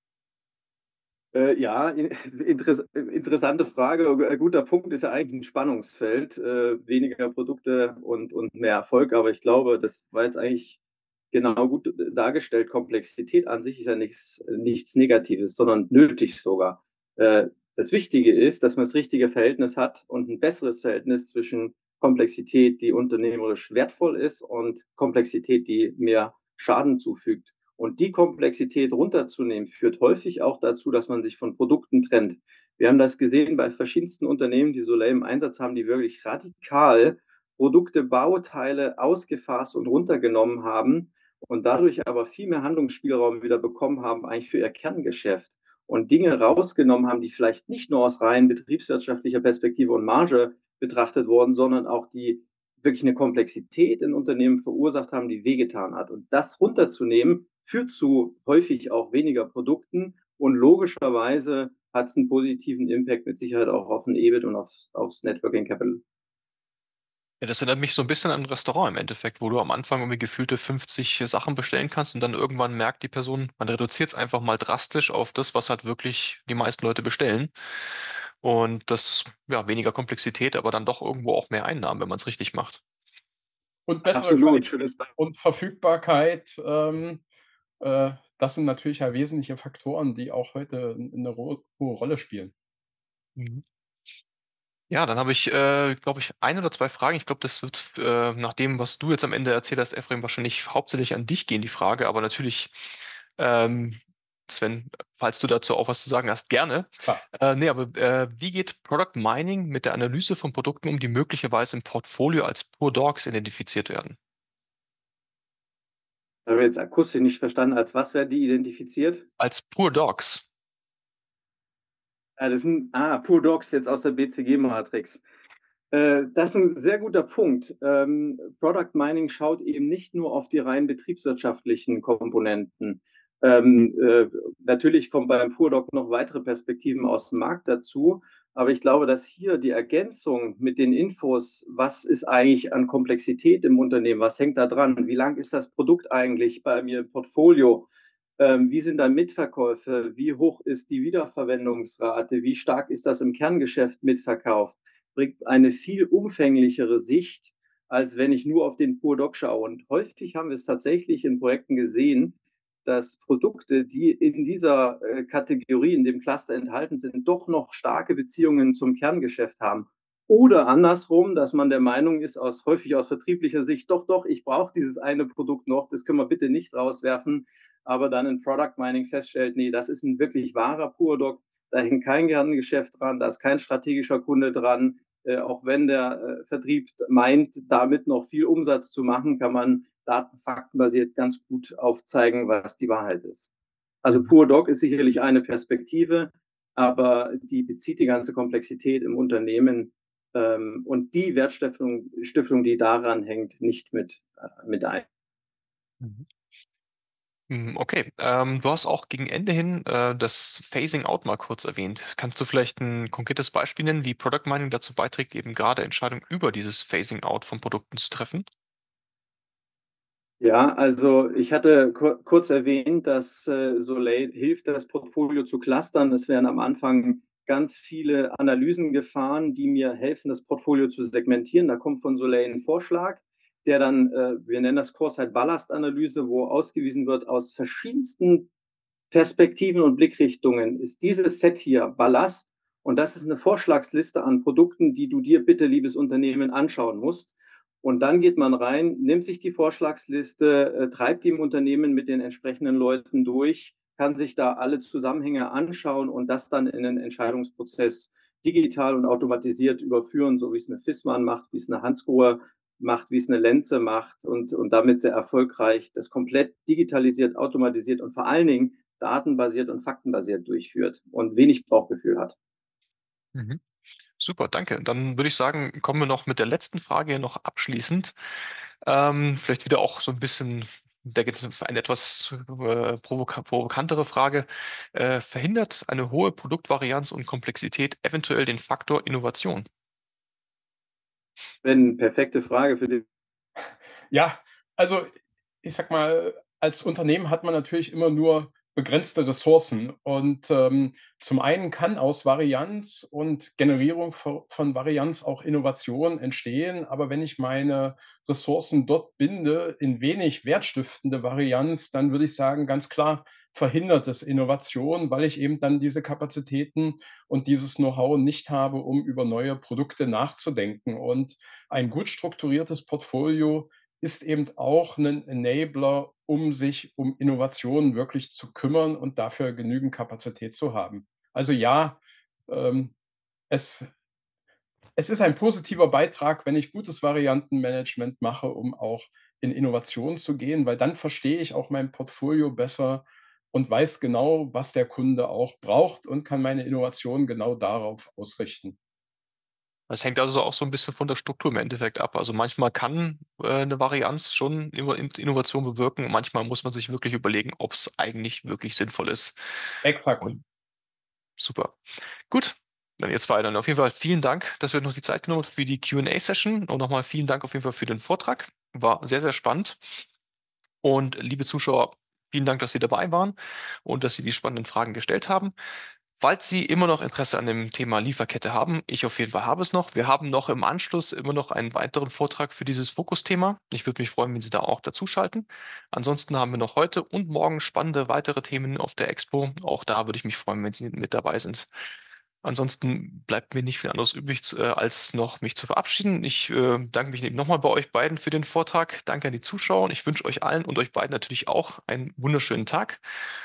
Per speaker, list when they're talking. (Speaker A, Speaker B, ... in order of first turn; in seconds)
Speaker A: 1.3-10.8, 11.3-66.0, 84.1-85.1, 116.5-119.2, 122.4-125.2, 125.9-147.9, 148.4-193.5, 194.0-205.1, 220.4-238.5, 239.1-272.3, 291.6-293.1
Speaker B: 67.4-77.5, 78.4-82.8, 93.4-93.6, 94.9-114.2, 119.4-120.5, 206.0-206.3, 207.5-218.5, 273.4-273.6, 274.2-278.1, 278.8-289.7, 349.9-359.4, 361.4-361.8, 362.3-370.0, 370.8-375.5, 376.2-391.7, 392.4-403.0
Speaker C: 83.9-87.2, 87.8-92.5, 294.1-332.9, 333.5-333.9, 335.0-348.8, 359.8-360.4